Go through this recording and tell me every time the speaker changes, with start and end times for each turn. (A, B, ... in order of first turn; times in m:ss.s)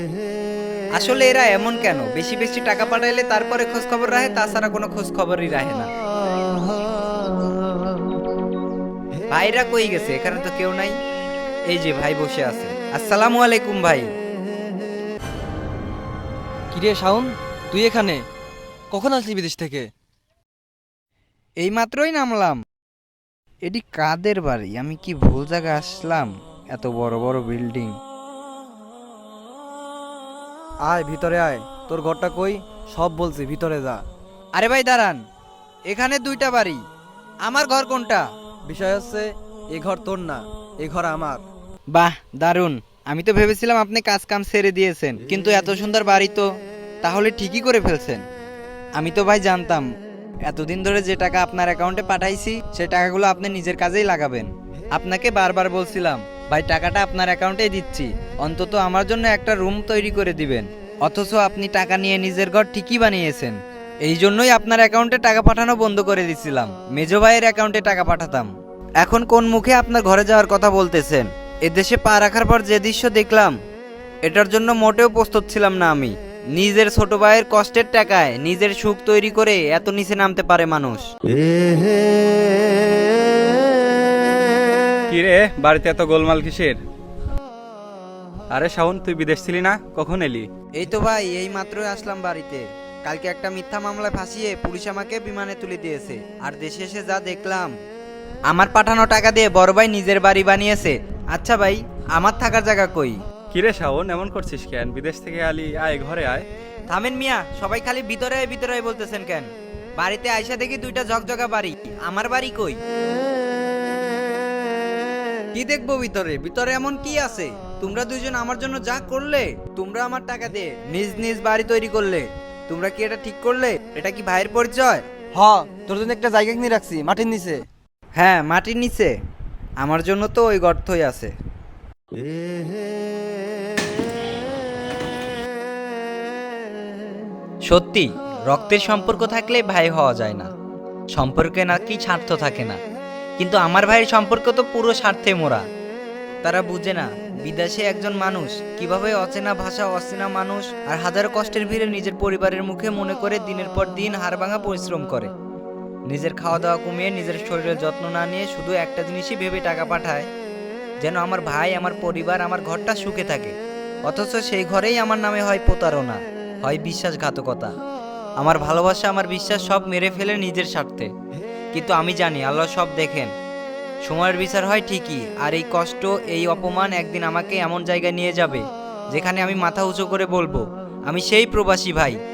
0:00.9-0:05.9 A
0:09.3-0:10.9 A
0:11.7-0:14.1 A
0:16.7-0:18.2 B
0:18.9-0:19.9 B
0:21.6-0:22.6 A
0:23.6-0:27.9 A
0:30.8-0:34.0 B
0:34.5-0:35.2 A
0:35.9-0:36.8 A
0:37.4-0:38.2 A
0:38.6-0:41.4 B
0:41.9-0:46.5 A
0:47.0-0:48.2 A
0:49.0-0:49.9 A
0:50.5-1:13.6 A
1:14.2-1:21.1 A
1:25.1-1:26.8 C
1:28.5-1:30.5 C
1:30.8-1:37.7 A
1:38.5-1:43.2 A
1:43.5-1:46.4 C
1:46.9-1:52.8 A
1:55.5-2:05.0 A
2:05.3-2:07.6 B
2:08.2-2:09.1 A
2:09.8-2:11.3 A
2:17.7-2:20.5 A
2:21.1-2:22.8 A
2:23.4-2:25.6 A
2:26.4-2:35.3 A
2:36.1-2:40.3 A
2:41.0-2:47.7 A
2:48.4-2:51.1 A
2:51.7-2:53.3 A
2:54.0-3:02.2 A